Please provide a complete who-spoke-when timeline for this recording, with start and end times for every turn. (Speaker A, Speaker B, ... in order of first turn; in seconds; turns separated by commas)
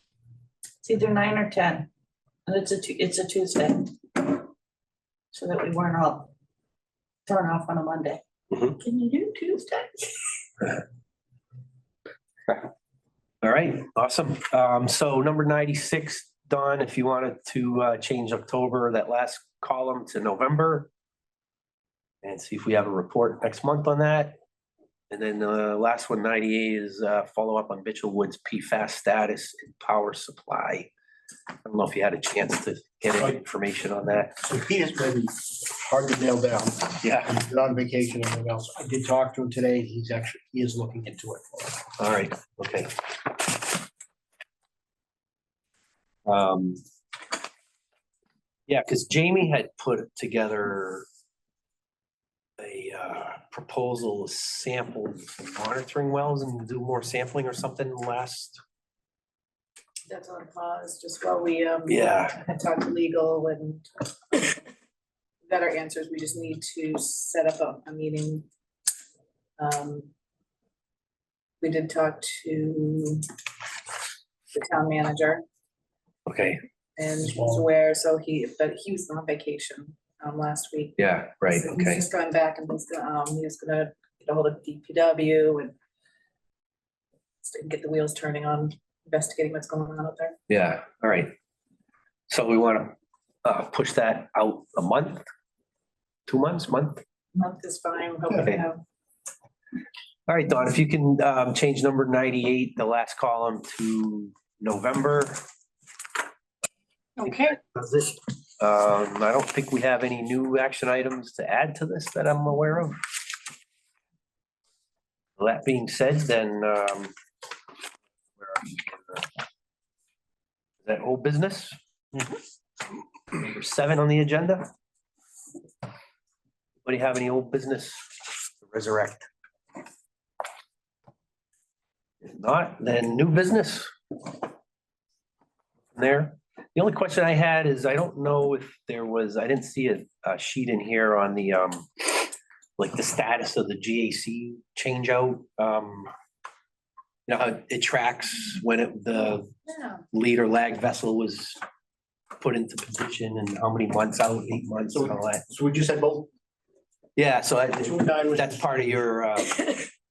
Speaker A: 0.8-1.9, Speaker A: 2.5-4.5, Speaker A: 5.3-6.3, Speaker A: 7.2-10.2, Speaker B: 13.4-20.9, Speaker B: 22.2-24.4, Speaker B: 25.1-30.9, Speaker B: 31.6-34.4, Speaker C: 34.4-41.9, Speaker B: 37.0-37.4, Speaker B: 42.0-43.0, Speaker B: 46.2-46.8, Speaker B: 48.7-51.1, Speaker B: 52.6-58.6, Speaker D: 60.1-64.6, Speaker B: 61.9-62.4, Speaker D: 65.5-68.5, Speaker D: 69.6-70.1, Speaker D: 71.6-73.2, Speaker D: 74.5-75.4, Speaker B: 76.2-76.6, Speaker D: 77.0-85.7, Speaker C: 77.2-77.6, Speaker B: 81.0-82.1, Speaker D: 87.4-90.3, Speaker B: 90.5-91.3, Speaker B: 92.3-92.9, Speaker B: 93.4-95.2, Speaker B: 96.3-97.0, Speaker D: 97.3-98.8, Speaker B: 100.3-105.4, Speaker B: 107.2-113.0, Speaker B: 115.4-117.1, Speaker B: 118.4-119.2, Speaker B: 120.8-122.3, Speaker B: 123.3-124.7, Speaker B: 126.8-129.3, Speaker B: 132.2-133.9, Speaker B: 135.9-146.1, Speaker B: 147.3-149.5, Speaker B: 150.1-151.6, Speaker B: 152.4-155.4, Speaker C: 154.9-156.3, Speaker B: 157.2-159.8, Speaker C: 157.8-158.9